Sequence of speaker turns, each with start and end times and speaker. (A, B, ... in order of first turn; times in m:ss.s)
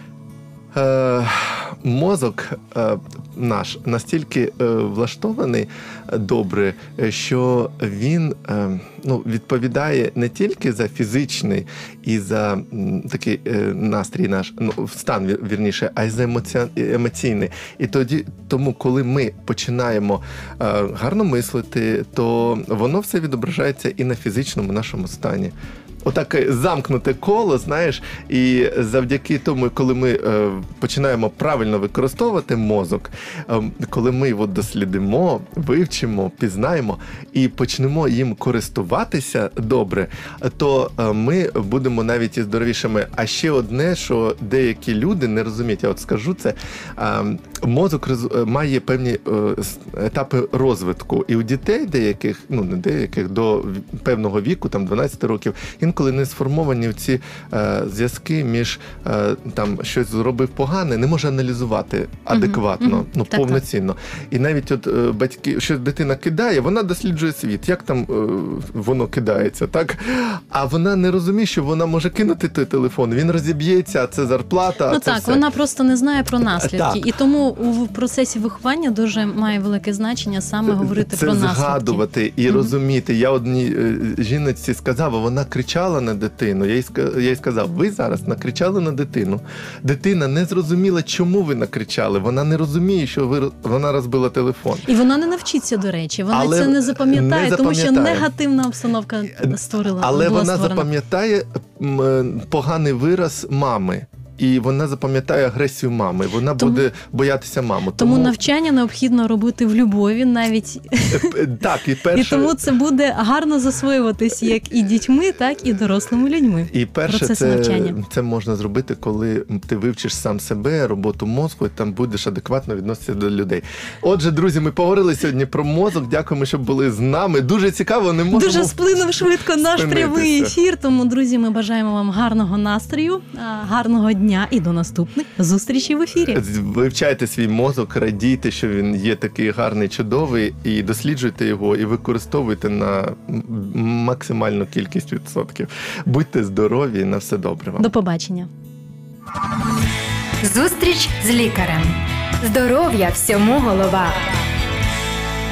0:00.7-1:15.4 A
1:02.3-1:03.6 B
1:14.9-1:22.7 B
1:16.6-1:17.0 A
1:20.7-1:34.9 A
1:34.8-1:40.9 B
1:36.3-1:38.3 A
1:39.4-1:48.4 A
1:46.6-1:46.8 B
1:48.0-1:51.4 B
1:51.1-1:52.6 A
1:52.1-1:58.0 B
1:56.7-2:10.5 A
2:08.3-2:16.4 B
2:16.3-2:27.9 A
2:27.8-2:28.5 B
2:30.4-2:34.2 C